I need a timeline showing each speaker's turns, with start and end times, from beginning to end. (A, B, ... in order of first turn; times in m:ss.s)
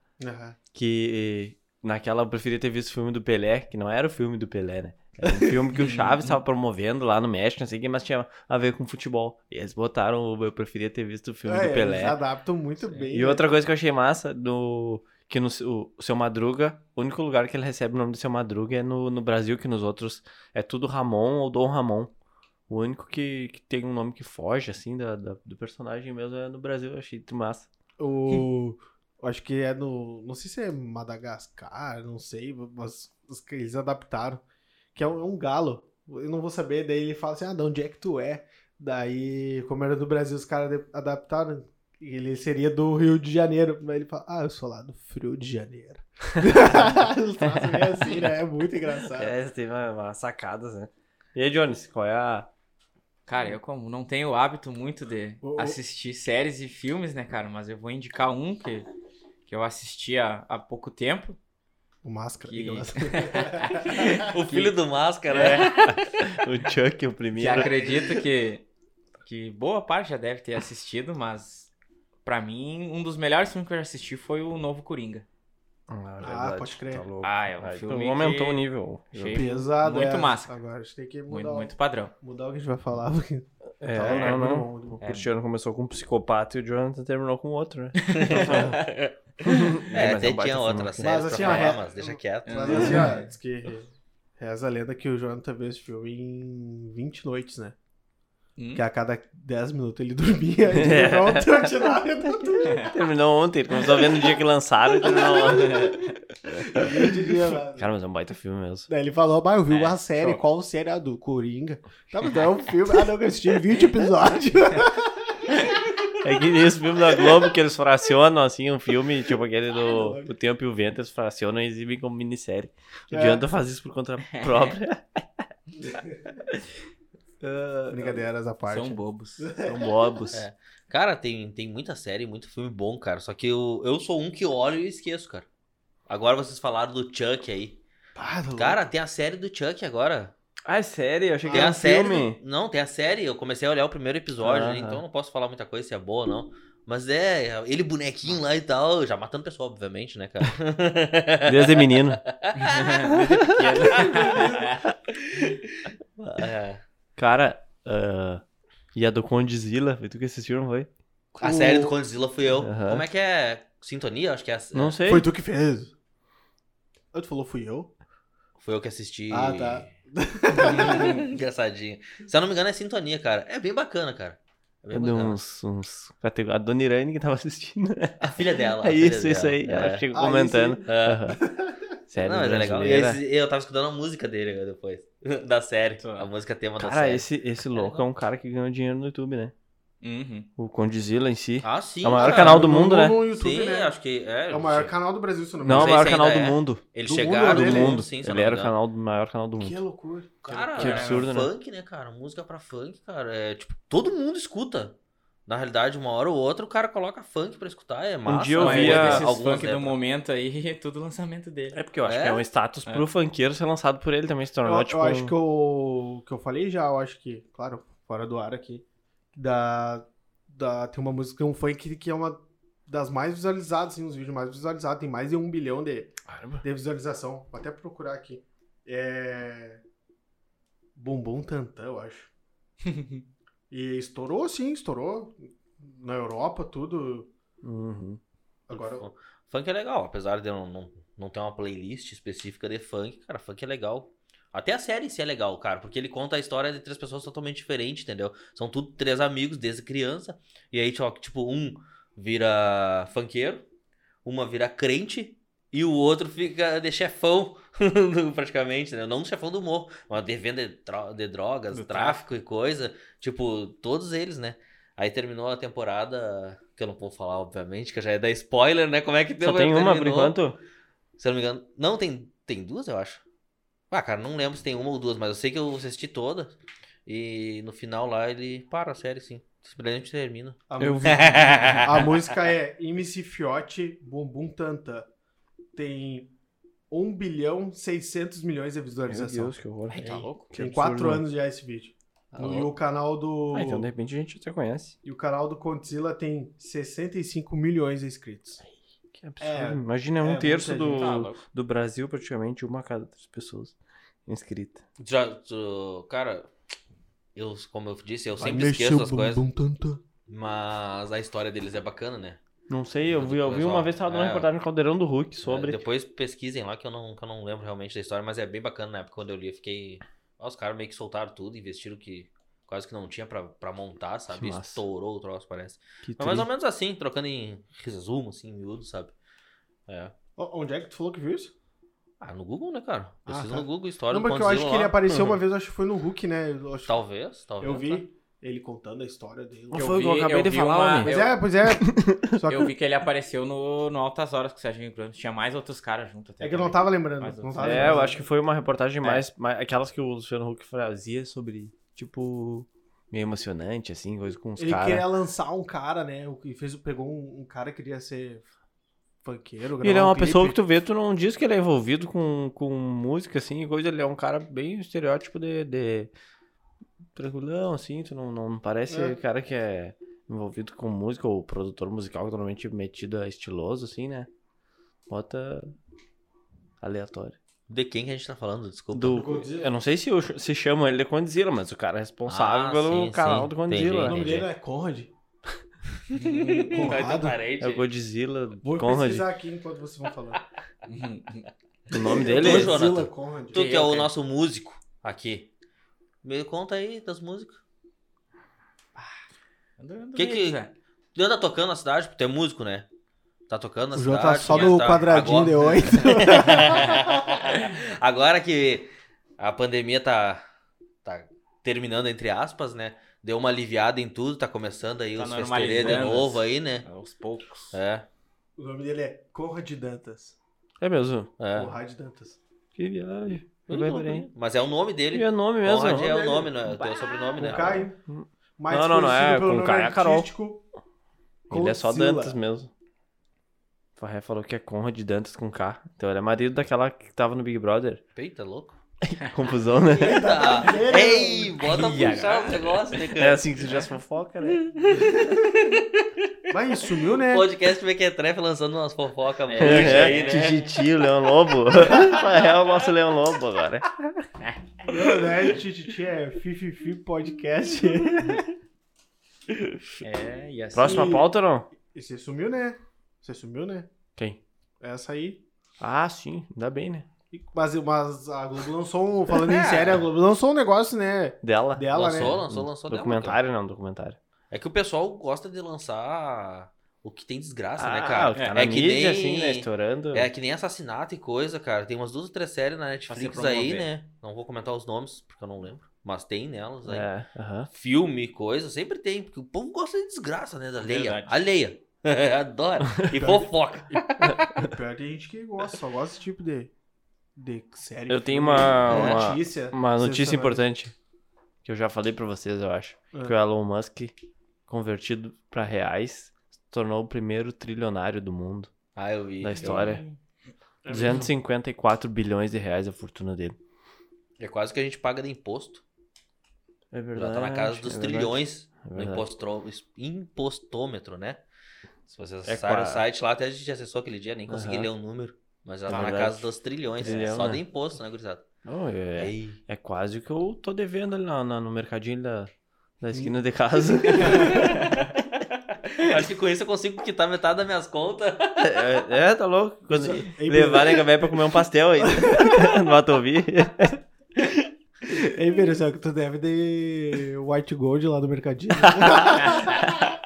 0:00.2-0:00.6 A
0:00.7-0:12.2 B
0:05.2-0:06.0 A
0:05.8-0:06.4 C
0:11.5-0:13.5 A
0:13.1-0:22.1 B
0:22.7-0:27.7 B
0:28.0-0:34.4 A
0:34.9-0:49.3 A
0:46.5-0:48.2 B
0:49.1-0:52.5 B
0:53.3-0:58.9 C
0:55.4-0:55.8 A
0:59.4-1:01.4 C
1:02.0-1:04.3 A
1:02.4-1:04.7 C
1:04.3-1:05.9 D
1:05.3-1:05.7 C
1:05.4-1:07.7 B
1:07.4-1:08.6 C
1:09.2-1:11.7 C
1:12.2-1:15.2 C
1:15.9-1:19.4 B
1:16.2-1:17.0 A
1:17.2-1:20.5 C
1:19.3-1:25.0 A
1:21.3-1:22.1 C
1:23.8-1:28.8 B
1:24.0-1:24.4 C
1:25.0-1:25.3 C
1:28.0-1:28.8 C
1:28.1-1:29.2 D
1:29.4-1:31.8 B
1:29.8-1:33.1 D
1:31.0-1:37.8 A
1:32.4-1:33.2 C
1:38.6-1:38.8 C
1:38.7-1:43.0 A
1:40.7-1:41.7 B
1:42.3-1:48.9 B
1:43.8-1:44.4 A
1:45.0-1:45.9 A
1:45.4-1:46.1 C
1:46.5-1:47.9 A
1:48.9-1:56.1 A
1:49.7-1:50.0 C
1:50.2-1:50.4 B
1:56.2-2:05.4 B
1:59.8-2:00.3 A
2:03.1-2:03.4 A
2:04.3-2:04.8 C
2:05.8-2:06.3 A
2:07.4-2:08.2 B
2:07.9-2:09.9 A
2:08.7-2:09.5 C
2:09.6-2:10.4 B
2:10.3-2:15.4 D
2:16.1-2:17.8 D
2:18.2-2:18.8 A
2:18.6-2:20.3 D
2:20.6-2:22.4 B
2:21.4-2:21.8 A
2:21.5-2:33.2 D
2:24.4-2:25.0 B
2:31.4-2:32.2 B
2:32.6-2:34.8 C
2:33.2-2:34.1 B
2:33.8-2:34.8 A
2:35.1-2:36.8 D
2:37.2-2:38.4 B
2:38.9-2:40.9 B
2:41.4-2:41.9 A
2:41.4-2:45.0 D
2:42.6-2:43.0 B
2:44.7-2:45.3 B
2:45.0-2:45.9 A
2:47.1-2:47.9 A
2:48.6-2:49.9 D
2:49.3-2:51.3 A
2:50.6-2:55.4 D
2:50.6-2:51.2 C
2:54.9-3:01.4 B
2:58.2-3:00.1 D
3:00.1-3:01.8 A
3:00.8-3:01.2 D
3:02.1-3:03.2 B
3:02.2-3:08.0 D
3:06.0-3:06.3 C
3:06.8-3:09.5 B
3:10.0-3:10.5 C
3:10.6-3:13.2 B
3:11.6-3:12.7 D
3:12.2-3:13.9 A
3:13.3-3:14.9 D
3:14.5-3:16.1 A
3:15.6-3:16.8 B
3:15.7-3:18.7 D
3:17.0-3:18.0 A
3:17.4-3:19.8 B
3:19.6-3:20.4 A
3:20.4-3:25.0 D
3:20.5-3:21.5 B
3:20.7-3:21.3 C
3:25.5-3:30.0 D
3:28.2-3:29.4 B
3:28.6-3:31.8 C
3:31.7-3:35.3 B
3:32.0-3:32.4 D
3:34.6-3:49.8 A
3:46.3-3:46.6 B
3:51.0-3:52.3 A
3:52.9-3:53.2 C
3:53.7-3:57.3 A
3:57.6-3:58.2 B
3:58.7-3:59.1 A
3:58.7-4:13.6 D
4:14.2-4:30.4 D
4:21.7-4:22.2 C
4:29.4-4:30.6 B
4:31.2-4:33.2 D
4:33.9-4:42.2 D
4:40.7-4:45.1 A
4:40.8-4:41.8 C
4:45.7-4:46.3 A
4:46.9-4:49.5 A
4:49.1-4:51.2 B
4:49.9-4:50.5 C
4:50.5-4:53.9 A
4:52.3-4:52.7 D
4:53.5-4:55.0 B
4:55.0-4:58.6 A
4:59.1-5:03.7 B
4:59.4-5:01.2 A
5:00.8-5:01.4 C
5:04.2-5:04.8 B
5:05.0-5:06.5 D
5:07.4-5:09.4 D
5:08.4-5:10.0 A
5:10.3-5:12.4 D
5:12.7-5:15.8 B
5:13.1-5:14.5 D
5:15.4-5:29.1 D
5:24.3-5:24.8 B
5:26.0-5:26.5 B
5:29.9-5:30.1 D
5:30.4-5:31.5 A
5:32.2-5:35.0 D
5:33.3-5:37.0 A
5:35.1-5:35.4 B
5:36.8-5:38.0 D
5:37.6-5:40.1 A
5:39.7-5:41.1 B
5:39.7-5:41.4 C
5:41.0-5:42.7 A
5:41.7-5:42.4 B
5:42.4-5:48.1 C
5:46.4-5:48.2 A
5:47.6-5:55.0 B
5:54.6-5:58.4 A
5:59.2-6:00.6 A
5:59.8-6:06.1 B
6:07.2-6:14.3 B
6:08.9-6:09.2 A
6:15.1-6:15.7 B
6:16.8-6:17.4 B
6:17.7-6:19.3 D
6:18.9-6:24.3 B
6:19.1-6:19.7 A
6:22.3-6:24.5 D
6:24.0-6:25.1 A
6:26.1-6:27.0 C
6:26.2-6:27.9 D
6:26.6-6:27.4 A
6:27.6-6:29.3 B
6:28.6-6:30.4 A
6:30.9-6:31.5 C
6:31.9-6:32.8 B
6:32.0-6:33.6 A
6:32.1-6:35.5 D
6:33.5-6:34.1 C
6:36.2-6:37.6 D
6:39.8-6:40.7 C
6:40.2-6:40.6 D
6:41.1-6:42.9 D
6:43.5-6:50.4 D
6:43.9-6:47.0 A
6:51.0-6:56.8 D
6:55.2-6:57.8 C
6:57.7-6:58.0 D
6:58.6-7:00.4 A
7:00.8-7:01.3 B
7:01.4-7:01.7 D
7:01.5-7:02.4 A
7:02.8-7:04.3 B
7:03.7-7:07.9 D
7:05.1-7:06.3 B
7:06.0-7:06.5 A
7:07.4-7:08.0 A
7:08.1-7:10.3 B
7:08.6-7:10.6 A
7:11.5-7:12.4 A
7:11.5-7:12.7 B
7:14.0-7:18.0 B
7:18.1-7:18.8 D
7:19.0-7:20.4 B
7:19.8-7:21.6 A
7:20.0-7:23.4 D
7:21.6-7:23.0 C
7:23.2-7:25.1 B
7:24.9-7:26.2 D
7:26.5-7:27.5 A
7:27.2-7:30.7 D
7:29.5-7:30.5 C
7:29.6-7:34.1 B
7:34.4-7:34.8 C
7:34.8-7:38.5 A
7:40.0-7:41.1 C
7:40.7-7:41.7 B
7:40.8-7:43.9 A
7:44.8-7:45.4 A
7:45.8-7:47.1 B
7:47.3-7:52.4 A
7:49.4-7:50.0 D
7:51.4-7:54.2 B
7:51.9-7:53.4 D
7:54.5-8:07.1 D
7:57.8-8:00.3 B
7:58.3-7:58.6 C
8:03.1-8:03.9 C
8:06.8-8:07.7 B
8:07.7-8:14.5 D
8:10.8-8:11.4 C
8:13.1-8:16.7 A
8:17.4-8:20.6 A
8:18.1-8:20.9 B
8:18.9-8:19.2 D
8:21.6-8:24.1 B
8:24.7-8:28.7 B
8:29.0-8:30.0 D
8:29.4-8:30.0 B
8:29.6-8:30.1 C
8:30.8-8:31.3 A
8:30.9-8:33.6 B
8:34.4-8:35.8 D
8:36.9-8:39.3 B
8:37.1-8:41.4 D
8:42.1-8:48.4 D
8:42.4-8:43.0 B
8:44.5-8:44.9 B
8:45.9-8:47.6 B
8:48.6-8:55.0 B
8:49.2-8:49.6 D
8:54.1-8:54.8 A
8:54.4-8:54.7 D
8:55.8-8:58.9 D
8:58.6-9:04.0 B
8:59.9-9:02.8 A
9:05.1-9:10.1 A
9:09.0-9:09.3 B